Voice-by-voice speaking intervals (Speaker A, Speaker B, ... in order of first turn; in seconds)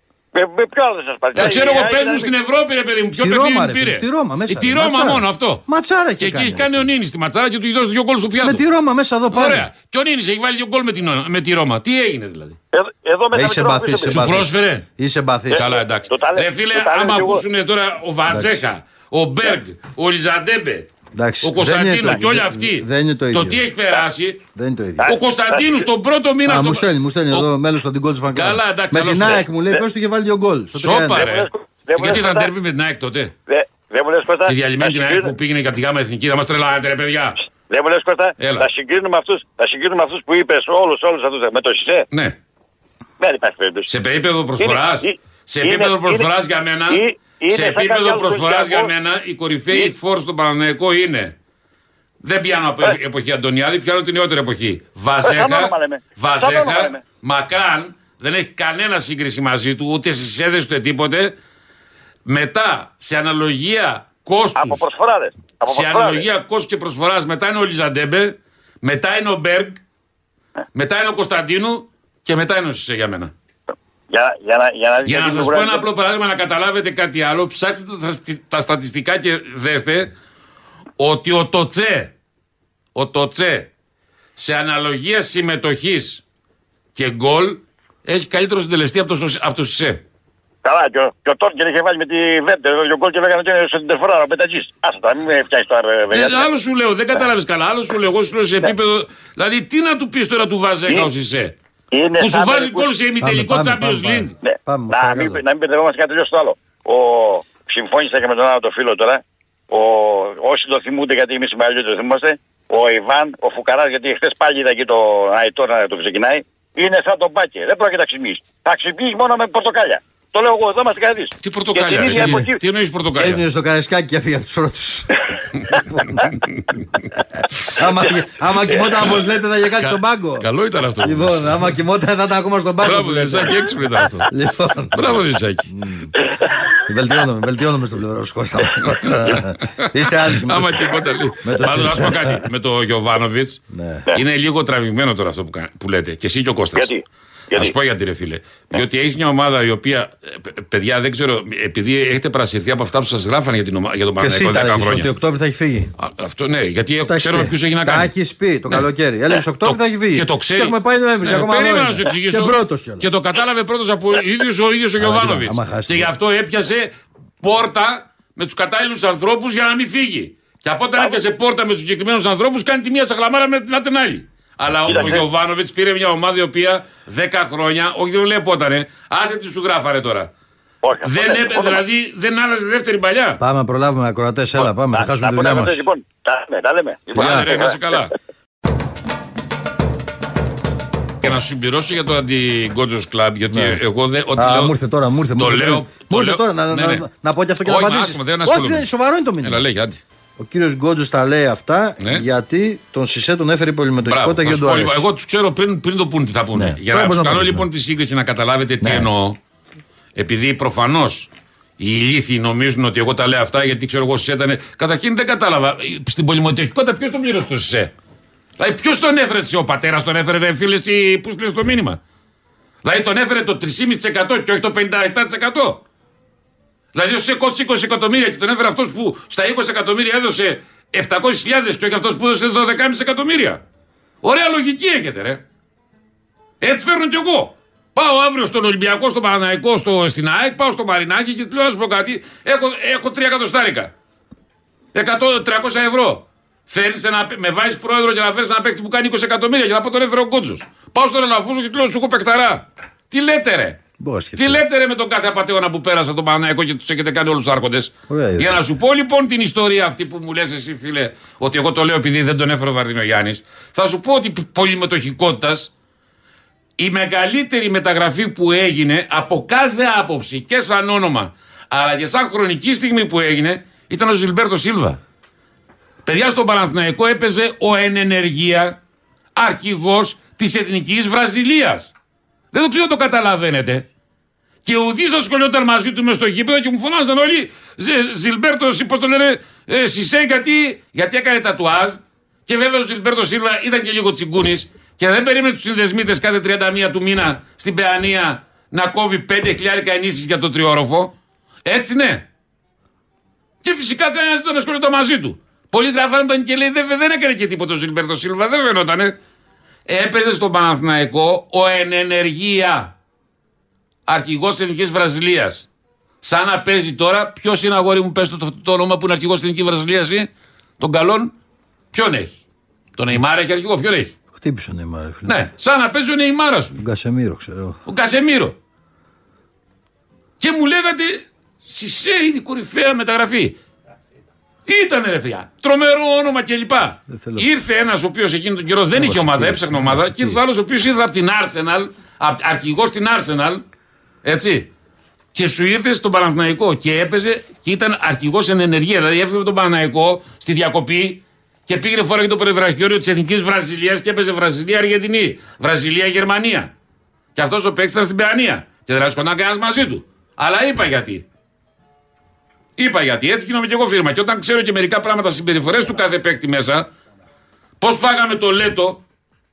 Speaker A: 0.3-2.3, 12.7-14.2, 15.5-17.4, 25.0-25.7, 31.1-32.5, 33.5-35.3, 37.7-42.1, 43.2-43.9, 44.6-46.3, 46.9-48.9, 55.2-57.0, 64.6-66.2, 74.1-75.9, 90.6-96.5, 101.9-102.9, 104.4-122.6, 146.8-147.7, 174.9-175.2, 180.8-181.8, 184.6-187.8
Speaker B: 1.4-5.6, 6.2-8.6, 9.3-12.6, 14.1-14.9, 15.5-20.9, 21.4-24.4, 25.1-27.5, 28.3-29.5, 30.8-33.3, 34.5-37.4, 38.4-38.7, 43.9-51.3, 52.2-61.4, 62.3-64.8, 65.7-69.8, 70.7-73.3, 75.1-80.1, 81.0-82.1, 83.0-83.7, 84.4-86.2, 87.0-90.0, 96.1-101.5, 102.2-104.4, 121.4-123.4, 129.8-131.7, 132.8-134.3, 134.9-135.7, 138.9-143.6, 144.1-146.9, 147.6-155.1, 156.0-158.1, 158.7-180.3, 181.0-183.4, 187.1-188.1, 191.2-194.7, 195.3-197.0, 197.6-198.9, 199.4-200.0, 202.0-202.2, 204.1-209.4, 210.2-217.9, 218.6-222.0, 222.8-225.8, 226.9-233.6, 234.2-235.4, 236.6-243.9, 244.9-253.8, 254.4-265.7, 266.8-275.0, 276.1-278.8, 279.4-281.9, 282.5-283.9, 284.6-301.1, 301.6-302.3, 303.6-309.1, 309.9-312.9, 314.1-315.7, 316.2-321.3, 321.9-322.4, 323.0-324.1, 325.3-326.8, 327.9-328.6, 330.4-333.6, 334.7-343.6, 344.2-344.7, 345.3-356.7, 357.4-361.2, 362.8-366.9, 367.8-369.0
Speaker C: 3.2-6.9, 8.4-9.7, 13.3-15.7, 18.3-18.6, 21.1-23.7, 24.6-25.1, 26.5-31.3, 103.2-105.4, 122.0-122.5, 123.2-125.2, 125.7-126.3, 127.2-130.5, 131.0-136.1, 136.8-142.4, 143.7-144.1, 154.2-155.9, 157.1-163.1, 165.0-166.1, 183.4-185.8, 187.2-187.5, 193.5-193.8, 194.3-199.6, 200.4-205.1, 206.5-207.7, 208.8-209.1, 254.0-254.6, 258.1-258.6, 324.3-325.4, 326.8-327.8, 337.1-337.5, 338.9-340.4